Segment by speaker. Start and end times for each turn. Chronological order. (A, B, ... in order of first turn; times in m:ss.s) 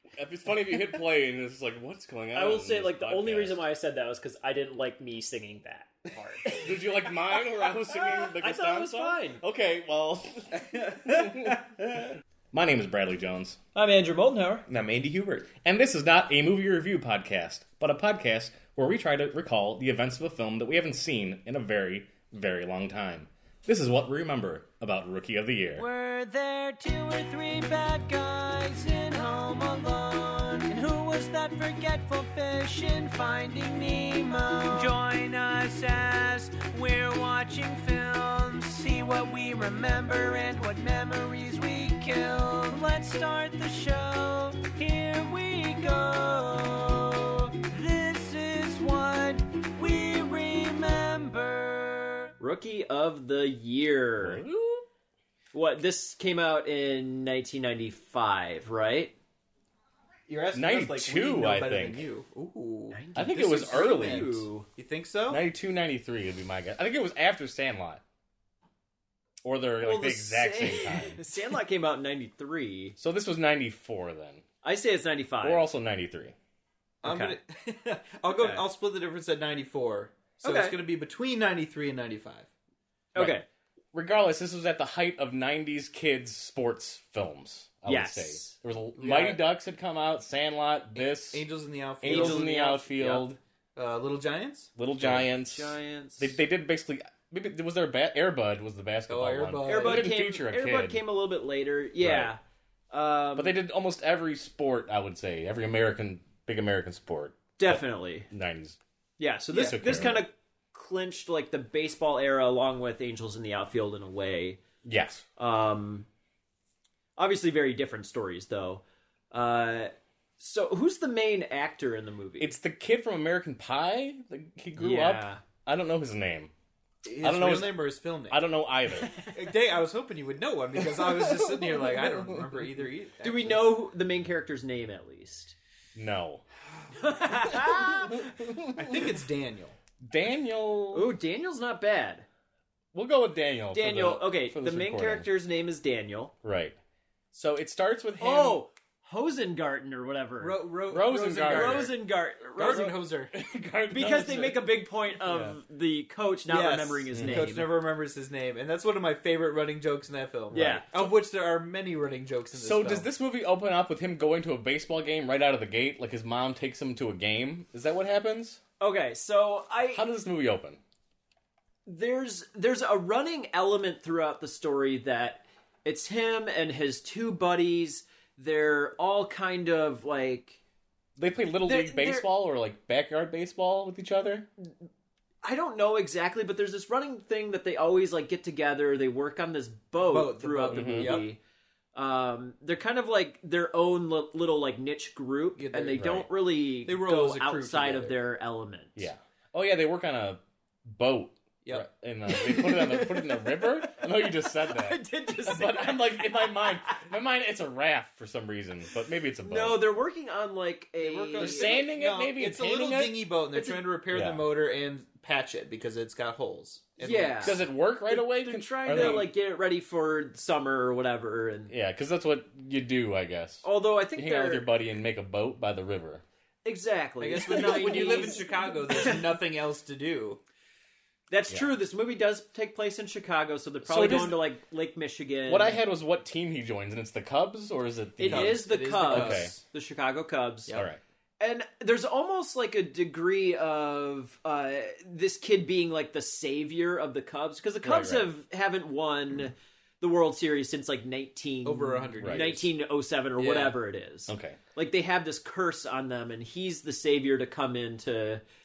0:00.2-0:03.6 A
0:02.3-0:06.9 B
0:06.6-0:11.6 A
0:07.9-0:09.4 B
0:10.7-0:11.6 C
0:12.5-0:13.6 A
0:13.8-0:14.6 B
0:14.7-0:15.5 C
0:15.6-0:25.9 A
0:25.8-0:52.3 D
0:52.4-0:54.4 B
0:54.2-0:54.9 A
0:55.5-0:59.1 B
1:00.3-1:05.4 C
1:00.5-1:02.1 A
1:02.9-1:04.7 B
1:03.2-1:04.5 A
1:05.3-1:08.0 A
1:09.4-1:11.2 A
1:09.8-1:13.0 B
1:13.0-1:14.4 A
1:14.6-1:15.7 B
1:15.4-1:16.3 A
1:17.0-1:22.5 C
1:17.0-1:17.4 B
1:18.3-1:18.6 B
1:20.4-1:20.8 B
1:23.1-1:23.5 B
1:23.2-1:23.4 A
1:23.9-1:31.4 A
1:27.9-1:28.6 B
1:29.0-1:29.4 C
1:31.0-1:34.7 C
1:32.0-1:33.4 A
1:32.1-1:32.6 B
1:34.8-1:41.0 A
1:35.0-1:36.4 B
1:39.1-1:40.1 C
1:39.6-1:42.4 B
1:42.0-1:42.3 A
1:42.9-1:43.6 B
1:43.4-1:48.8 A
1:47.6-1:48.3 B
1:49.2-1:54.6 B
1:49.5-1:49.8 C
1:49.6-1:50.2 A
1:54.8-1:55.2 A
1:55.4-1:56.1 B
1:57.2-2:02.6 B
2:02.4-2:06.5 A
2:04.8-2:05.4 B
2:07.0-2:08.4 C
2:07.2-2:09.1 A
2:09.0-2:09.3 B
2:09.2-2:13.7 C
2:11.8-2:12.6 A
2:13.2-2:15.5 B
2:16.0-2:16.4 A
2:16.9-2:18.2 B
2:17.5-2:19.1 A
2:18.7-2:19.8 C
2:20.0-2:21.1 A
2:20.9-2:22.3 B
2:22.9-2:25.3 A
2:23.7-2:26.3 B
2:26.4-2:26.8 A
2:27.3-2:28.6 A
2:28.2-2:30.6 B
2:30.4-2:31.9 C
2:30.9-2:31.9 A
2:31.5-2:32.9 B
2:32.6-2:33.3 C
2:32.6-2:34.6 A
2:33.9-2:37.7 B
2:35.2-2:35.6 A
2:36.5-2:43.1 C
2:37.1-2:37.5 A
2:40.5-2:40.9 B
2:40.8-2:41.1 A
2:42.5-2:48.6 A
2:48.8-2:50.1 B
2:49.9-2:50.8 A
2:51.9-3:00.6 B
3:01.2-3:04.5 A
3:01.6-3:02.3 B
3:05.4-3:11.4 B
3:10.0-3:11.3 C
3:10.7-3:11.2 A
3:12.0-3:19.1 B
3:15.6-3:18.2 C
3:19.0-3:29.9 A
3:22.3-3:27.1 B
3:29.4-3:31.8 B
3:31.0-3:37.6 C
3:31.4-3:33.2 A
3:33.6-3:33.8 B
3:34.1-3:34.4 A
3:37.0-3:37.6 B
3:37.4-3:39.3 A
3:38.1-3:41.7 B
3:38.9-3:39.3 C
3:41.7-3:46.2 A
3:43.6-3:44.7 B
3:46.6-3:49.2 B
3:47.2-3:50.4 C
3:47.5-3:48.4 A
3:51.3-3:55.8 B
3:53.8-3:54.4 A
3:55.5-3:59.5 A
3:58.2-4:00.8 B
3:58.2-3:59.6 C
4:00.7-4:01.0 A
4:01.4-4:18.4 B
4:07.8-4:08.3 A
4:11.6-4:12.7 C
4:12.2-4:12.5 A
4:13.4-4:13.8 C
4:14.3-4:14.6 A